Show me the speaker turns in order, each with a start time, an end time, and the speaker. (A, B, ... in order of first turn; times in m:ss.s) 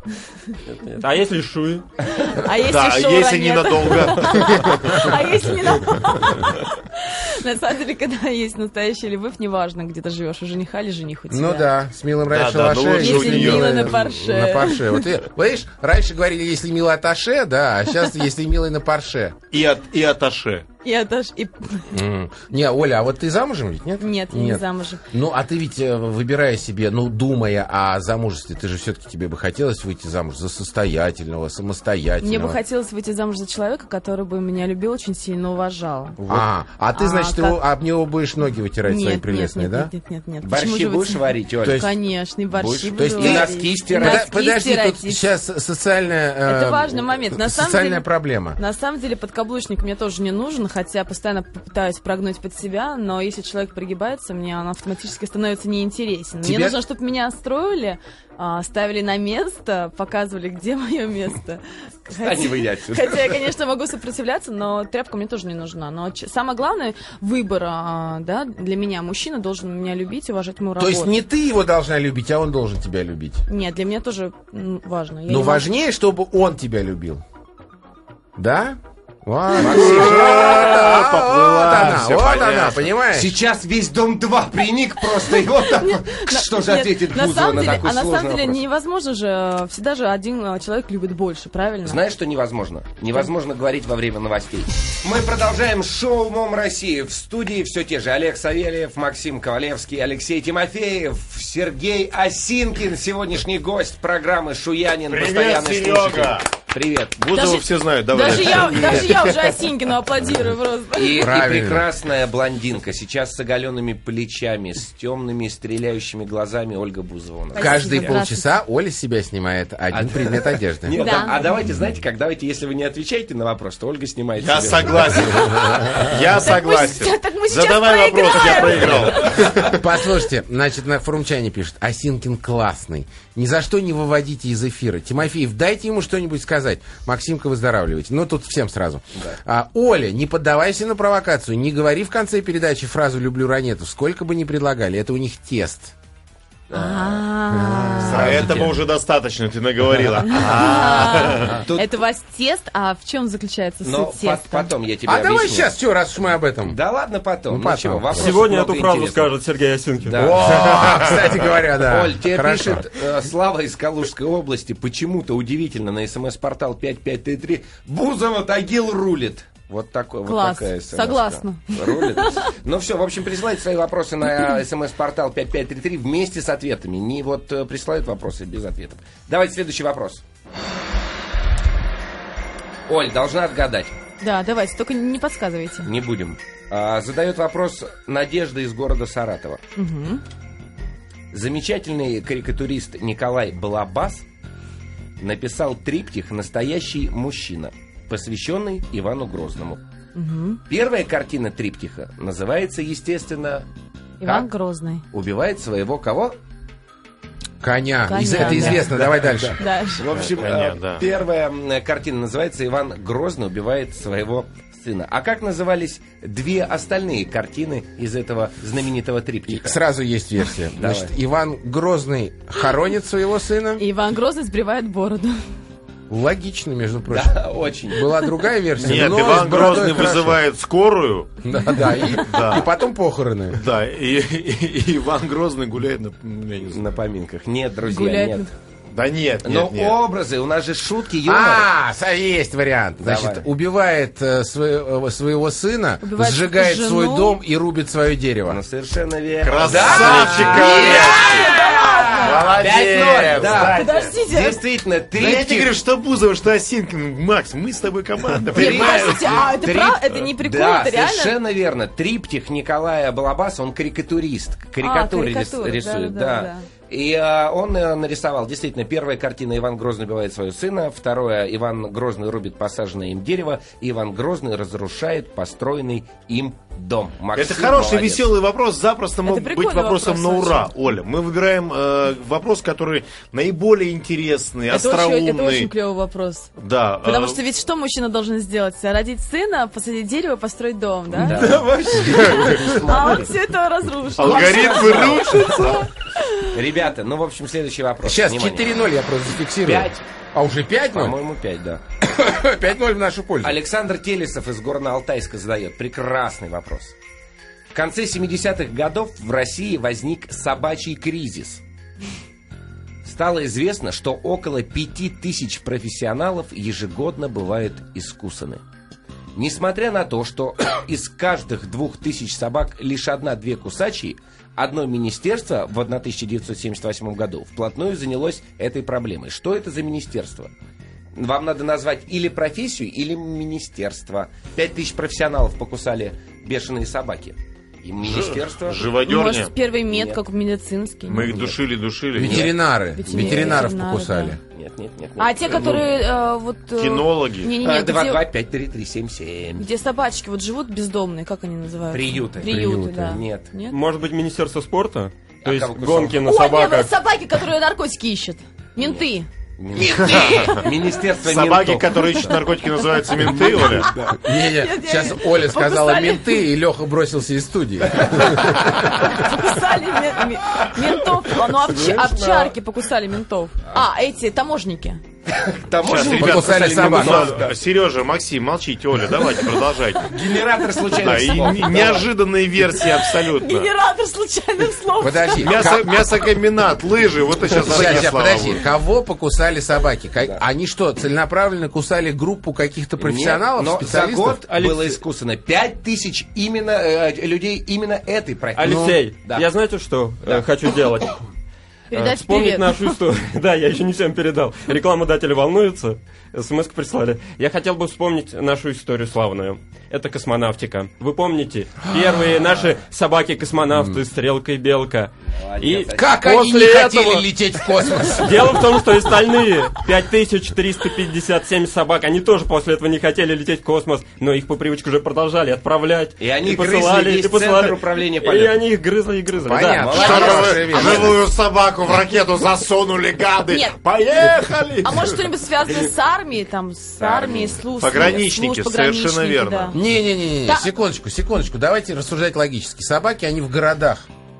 0:00.2-0:00.6 A
0:00.7-0:01.9 B
0:02.1-0:11.7 A
0:02.6-0:05.1 C
0:11.3-0:19.3 D
0:12.3-0:14.0 C
0:12.9-0:15.1 A
0:19.5-0:20.7 C
0:20.8-0:21.9 A
0:21.9-0:32.6 D
0:24.0-0:25.0 A
0:32.2-0:36.2 A
0:36.2-0:39.9 D
0:36.9-0:37.6 A
0:38.8-0:45.2 A
0:40.4-0:41.9 E
0:41.6-0:41.9 D
0:42.5-0:44.3 E
0:43.0-0:48.6 D
0:46.4-1:11.2 A
0:56.4-0:56.8 D
1:02.1-1:03.4 E
1:10.8-1:13.4 D
1:13.5-1:15.6 A
1:15.3-1:17.2 D
1:18.4-1:23.3 D
1:19.6-1:20.9 E
1:19.6-1:22.9 C
1:22.0-1:28.6 E
1:25.4-1:32.0 A
1:31.8-1:47.2 E
1:45.1-1:46.5 C
1:47.2-1:49.6 C
1:47.3-1:51.3 A
1:50.9-1:58.2 E
1:51.1-1:51.9 D
1:57.5-1:58.4 A
1:57.6-2:01.0 D
1:59.9-2:05.7 E
2:00.9-2:01.4 A
2:04.4-2:09.8 C
2:05.9-2:09.4 A
2:09.6-2:25.9 D
2:26.7-2:27.2 E
2:26.7-2:28.3 A
2:27.5-2:28.7 D
2:28.0-2:28.8 E
2:28.0-2:31.6 C
2:30.2-2:34.7 A
2:31.4-2:31.9 E
2:33.8-2:35.7 E
2:35.0-2:36.8 D
2:36.6-2:39.3 E
2:37.5-2:38.4 D
2:38.1-2:40.4 B
2:40.0-3:00.2 E
2:40.1-2:42.8 D
2:50.2-2:52.5 A
3:02.9-3:03.9 E
3:04.2-3:05.9 A
3:05.8-3:09.6 E
3:09.8-3:10.2 A
3:11.3-3:14.2 E
3:15.2-3:19.8 E
3:20.1-3:20.6 A
3:20.7-3:23.6 E
3:24.2-3:25.0 A
3:24.2-3:24.5 E
3:25.1-3:26.4 E
3:27.6-3:29.6 D
3:28.1-3:29.0 A
3:28.2-3:39.8 E
3:29.6-3:30.1 A
3:30.1-3:31.0 C
3:39.5-3:43.8 D
3:40.7-3:41.1 E
3:43.8-3:45.4 A
3:46.1-3:50.4 D
3:47.1-3:48.3 E
3:48.8-3:52.7 C
3:51.4-3:53.6 D
3:53.5-3:56.8 C
3:56.7-3:58.5 E
3:57.9-3:58.5 A
3:58.9-4:00.0 C
3:59.4-4:01.7 E
4:01.2-4:08.6 D
4:03.0-4:03.4 E
4:06.0-4:07.4 A
4:08.5-4:15.8 E
4:09.4-4:11.4 C
4:09.6-4:11.4 D
4:10.5-4:12.6 A
4:12.2-4:14.1 C
4:13.6-4:14.6 A
4:15.2-4:19.6 C
4:18.5-4:21.4 A
4:18.5-4:38.3 E
4:24.8-4:26.6 A
4:37.3-4:45.7 C
4:39.2-4:40.7 A
4:44.7-4:56.5 A
4:46.6-4:47.4 C
4:51.1-4:53.3 E
4:51.3-4:52.8 C
4:54.2-4:55.9 C
4:54.2-4:55.8 E
4:56.5-4:58.7 E
4:58.0-5:01.2 D
4:59.6-5:00.0 E
5:00.9-5:01.8 E
5:02.0-5:03.6 D
5:03.4-5:06.9 E
5:07.7-5:11.6 E
5:13.0-5:18.6 E
5:19.3-5:30.5 E
5:31.1-5:39.0 E
5:38.0-5:39.5 C
5:39.0-5:41.4 A
5:39.8-5:40.2 E
5:41.1-5:42.5 C
5:41.2-5:41.6 E
5:42.1-5:42.5 E
5:42.2-5:44.4 D
5:42.9-5:44.4 A
5:43.0-5:43.7 E
5:44.5-5:46.0 E
5:45.2-5:48.2 A
5:45.6-5:45.9 C
5:46.7-5:47.5 C
5:47.6-5:49.7 E
5:49.6-5:53.8 A
5:51.9-5:53.5 E
5:52.4-5:53.2 D
5:53.7-5:56.9 B
5:55.4-5:56.2 E
5:56.2-6:00.9 A
5:58.8-5:59.0 E
5:59.6-6:02.4 E
5:59.9-6:00.4 C
6:01.2-6:03.9 C
6:03.2-6:04.2 E
6:03.7-6:06.4 A
6:04.2-6:09.0 D
6:08.7-6:15.0 A
6:11.6-6:12.5 E
6:15.3-6:17.5 E
6:15.8-6:20.1 C
6:16.0-6:17.4 D
6:20.1-6:22.1 E
6:20.8-6:21.5 A
6:20.9-6:23.7 C
6:22.8-6:25.7 A
6:25.0-6:25.8 D
6:25.4-6:28.6 C
6:27.6-6:34.4 D
6:33.0-6:39.5 E
6:34.5-6:35.0 B
6:38.6-6:41.2 B
6:38.6-6:39.0 D
6:41.9-6:43.0 A
6:41.9-6:57.3 B
6:55.3-6:56.2 E
6:55.9-6:58.6 D
6:58.2-7:10.1 B
7:06.2-7:08.6 E
7:09.4-7:11.2 D
7:09.7-7:11.2 E
7:09.9-7:15.2 C
7:10.0-7:10.3 A
7:13.5-7:13.8 A
7:14.8-7:19.8 A
7:17.0-7:17.6 E
7:17.8-7:19.8 C
7:19.7-7:24.0 D